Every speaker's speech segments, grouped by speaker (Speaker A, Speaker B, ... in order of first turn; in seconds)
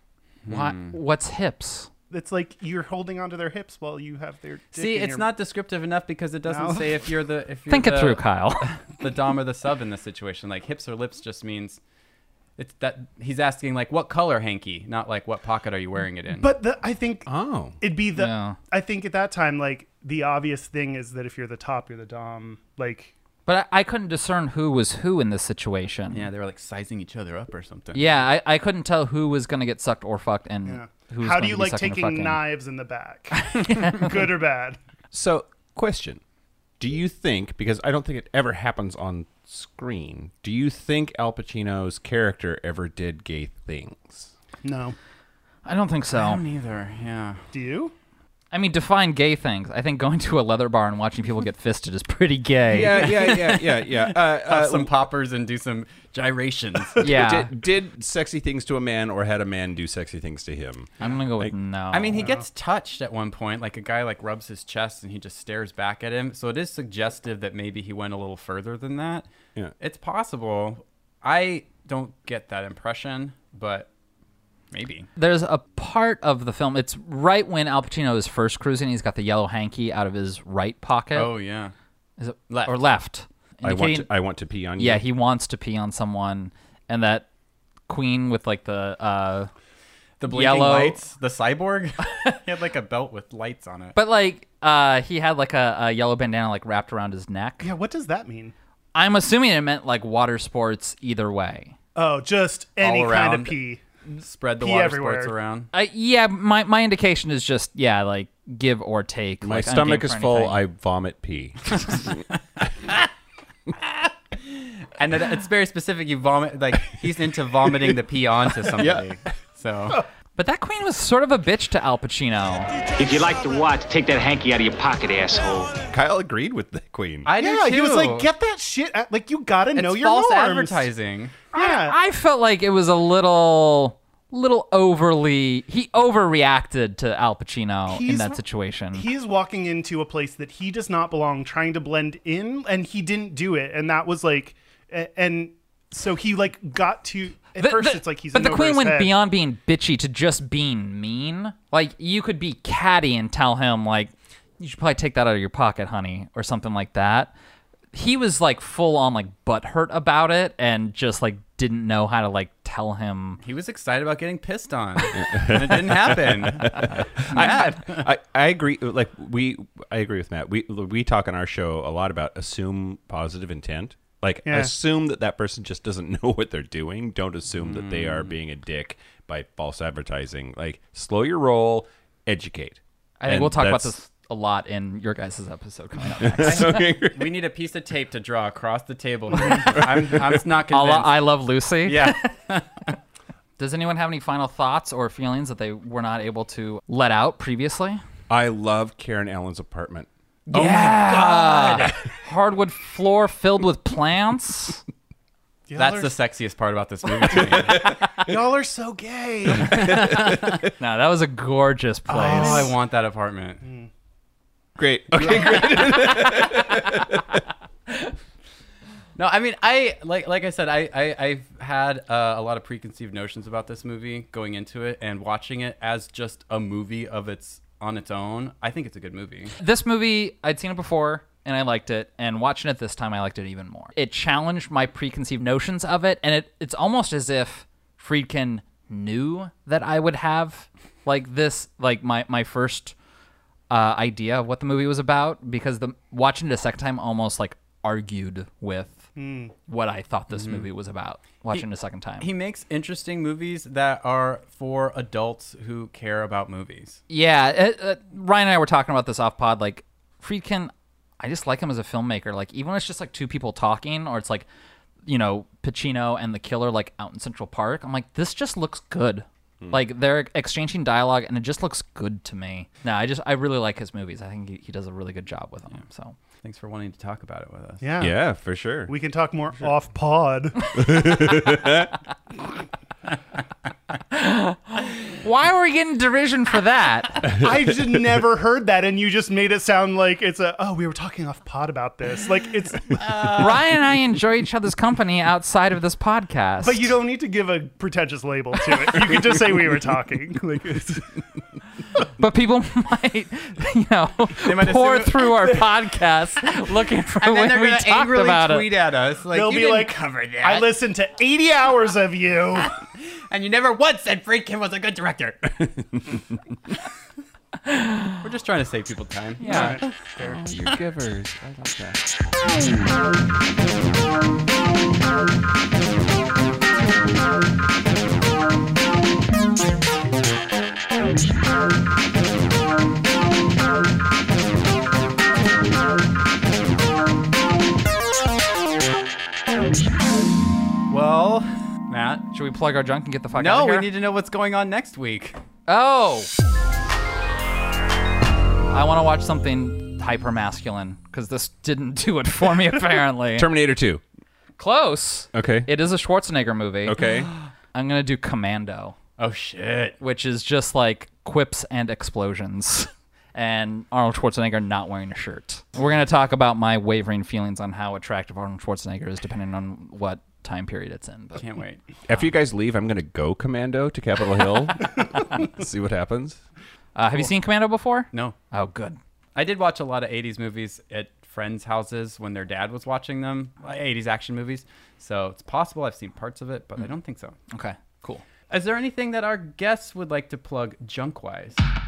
Speaker A: 0.5-0.9, 4.7-11.8, 12.6-16.5, 26.1-28.2, 46.1-47.5, 53.0-57.1, 61.9-69.3, 69.8-73.9, 74.7-75.1, 81.1-81.7, 82.5-82.8, 90.2-94.0, 102.8-103.6, 104.2-105.7, 115.0-120.0, 127.2-128.3, 129.8-131.4, 163.4-168.1, 177.6-178.4, 186.4-191.3, 191.8-192.9, 200.5-201.9, 205.8-207.9, 212.1-213.6, 219.2-229.6, 250.3-250.6, 252.2-257.0, 276.4-277.9, 293.0-293.5, 304.4-305.6, 307.2-310.8, 312.6-315.5, 318.2-320.0, 340.9-342.3, 343.4-345.4, 359.2-360.0, 371.4-371.8, 379.4-387.4, 388.5-391.6
Speaker B: 0.5-1.9, 7.7-8.7, 18.2-18.6, 23.5-26.3, 27.9-32.4, 33.5-34.2, 45.7-46.4, 48.5-53.2, 57.0-57.5, 61.0-62.3, 75.2-81.3, 82.2-84.1, 84.8-87.3, 87.9-89.5, 90.3-91.0, 94.0-97.7, 99.0-101.7, 105.7-110.6, 120.4-122.7, 131.5-139.1, 147.6-157.3, 157.9-163.4, 183.2-186.8, 190.7-192.2, 193.6-198.0, 200.5-204.8, 210.8-212.7, 229.6-242.9, 243.7-249.1, 249.7-252.3, 257.1-264.5, 265.1-276.1, 284.1-287.4, 293.3-296.9, 302.2-308.7, 317.7-318.2, 319.4-319.8, 342.3-343.9, 345.7-346.3, 348.7-353.5, 354.6-357.0, 357.7-359.0, 360.0-371.4, 376.9-379.0, 387.5-388.2
Speaker C: 2.1-5.3, 6.5-7.0, 16.4-23.1, 30.7-34.8, 44.6-45.0, 47.5-47.9, 62.2-62.4, 97.6-98.5, 102.0-103.8, 104.6-105.3, 127.4-130.9, 131.5-132.0, 137.9-138.4, 138.9-149.1, 174.5-174.7, 200.5-201.3, 205.7-206.2, 207.8-210.3, 212.1-212.8, 213.6-213.9, 249.2-249.5, 277.8-278.2, 278.9-281.1, 287.4-293.4, 296.6-301.2, 309.3-312.7, 319.4-320.4
Speaker D: 17.3-17.8, 35.1-36.2, 36.8-44.3, 52.7-55.0, 57.0-61.5, 83.6-85.0, 109.4-112.2, 118.7-119.1, 125.9-127.3, 165.2-183.9, 186.1-187.4, 189.8-190.2, 198.3-200.1, 209.8-210.5, 214.8-217.4, 278.0-278.9, 280.8-281.9, 315.6-316.2, 320.2-322.8, 353.3-354.0, 355.3-355.7, 356.9-357.3, 372.1-376.4
Speaker E: 123.0-125.8